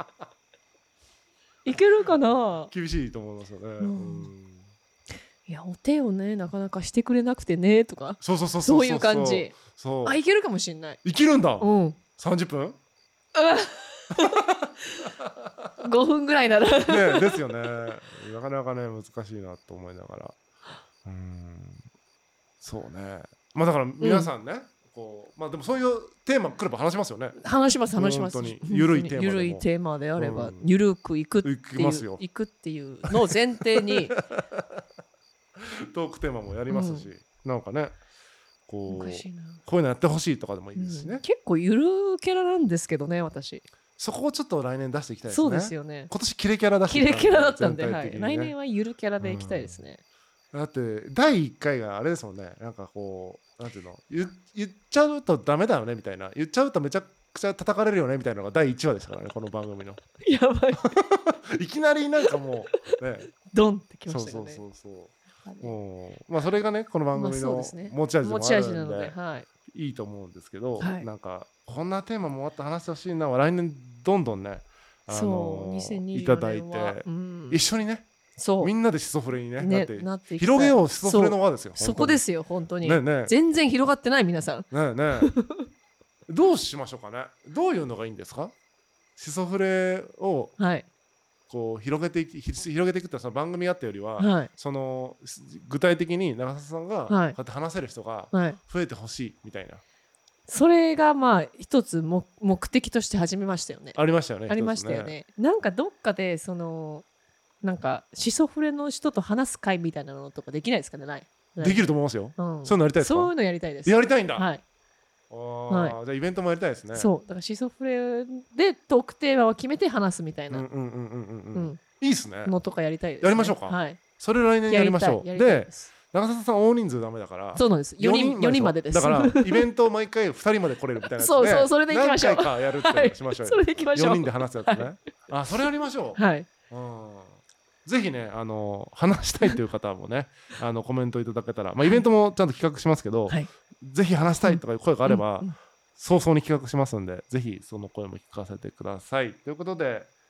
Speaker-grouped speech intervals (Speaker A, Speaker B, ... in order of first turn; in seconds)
Speaker A: 1.6-2.7, 3.8-4.3, 5.5-11.0, 11.6-12.0, 13.3-14.3, 15.8-17.4, 24.0-24.3, 27.4-34.1, 36.7-37.1, 38.9-39.6, 40.8-43.6, 45.3-46.1, 46.9-50.0, 60.2-60.9, 63.5-64.6, 65.5-65.7, 67.1-69.5, 70.8-71.1, 75.1-77.6, 78.4-78.7, 79.6-85.7, 90.6-90.9, 94.2-94.5, 97.1-97.4, 98.3-98.6, 100.5-107.0, 107.6-114.6, 115.7-116.0, 116.9-120.7, 121.5-121.8, 122.4-124.0, 124.7-125.9, 127.5-129.6, 131.2-134.9, 135.5-136.5, 144.4-145.6
Speaker B: 2.7-4.7, 8.2-10.2, 11.0-12.8, 16.9-20.4, 21.1-21.8, 22.6-27.4, 27.9-30.7, 31.4-32.2, 33.9-34.6, 35.6-38.0, 38.7-41.2, 44.0-48.5, 49.2-49.8, 50.5-60.0, 60.8-63.3, 64.1-69.2, 69.7-78.1, 78.6-82.2, 82.8-83.3, 84.7-85.3, 86.3-88.5, 89.2-90.6, 91.5-99.8, 104.0-105.2, 111.6-114.5, 115.3-117.1, 120.5-122.5, 123.2-150.1